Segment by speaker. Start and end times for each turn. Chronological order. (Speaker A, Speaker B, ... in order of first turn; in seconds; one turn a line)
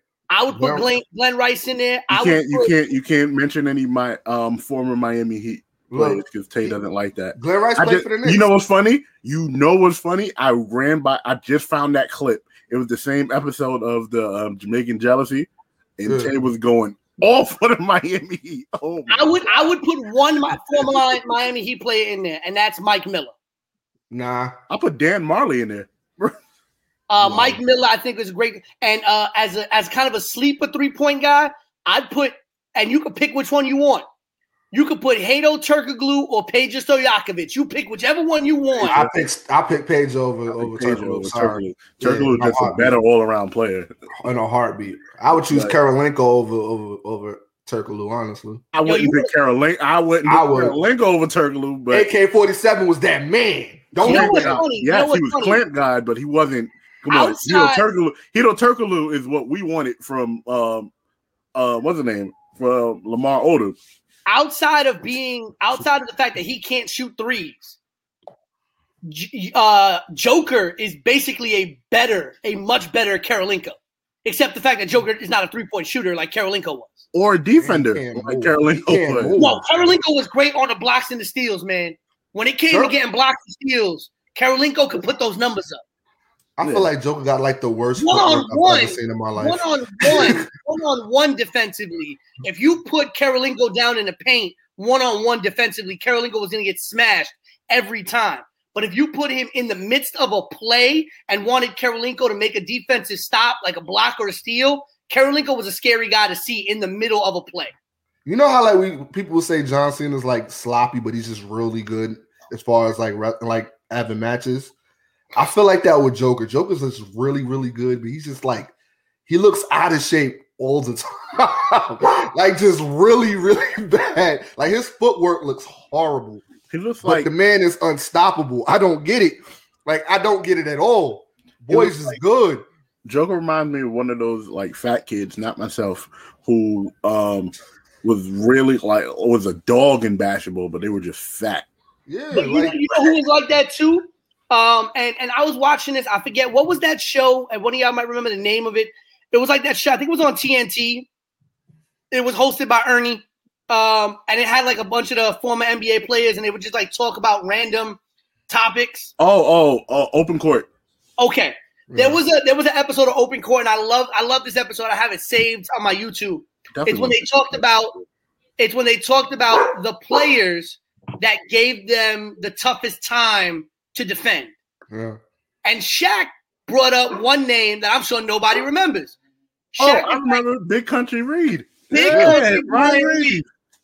Speaker A: 0.3-2.7
Speaker B: 0.5-0.9
Speaker C: 2.1-19.4
Speaker B: 5.9-6.8
Speaker B: 7.3-8.5
Speaker B: 16.0-16.3
Speaker A: 19.1-23.3
Speaker B: 24.1-24.5
Speaker C: 24.7-26.3
Speaker A: 27.1-34.0
Speaker B: 27.2-27.6
Speaker A: 34.7-39.1
Speaker B: 38.8-43.0
Speaker C: 38.8-39.1
Speaker C: 40.5-43.9
Speaker B: 44.2-48.6
Speaker C: 45.5-45.7
Speaker C: 48.7-52.1
Speaker A: 48.8-49.3
Speaker B: 50.2-50.8
Speaker B: 51.9-54.6
Speaker C: 54.0-60.9
Speaker A: 54.0-55.6
Speaker A: 57.1-57.9
Speaker C: 61.5-63.8
Speaker A: 64.3-67.8
Speaker A: 69.0-77.0
Speaker C: 77.1-79.4
Speaker B: 77.6-80.0
Speaker A: 79.4-85.8
Speaker B: 86.6-90.5
Speaker C: 86.6-86.9
Speaker A: 88.0-107.7
Speaker B: 108.2-114.7
Speaker B: 115.3-118.7
Speaker B: 119.3-126.4
Speaker C: 126.7-127.3
Speaker B: 127.0-132.6
Speaker C: 131.7-132.2
Speaker C: 133.0-141.7
Speaker B: 142.1-142.8
Speaker A: 142.3-151.1
Speaker A: 152.1-159.1
Speaker C: 159.2-160.7
Speaker A: 161.2-168.0
Speaker B: 161.9-162.2
Speaker C: 166.7-167.6
Speaker A: 168.6-174.5
Speaker B: 174.9-175.2
Speaker A: 175.6-179.2
Speaker A: 179.7-180.4
Speaker C: 179.8-183.4
Speaker A: 181.9-183.4
Speaker B: 182.1-182.4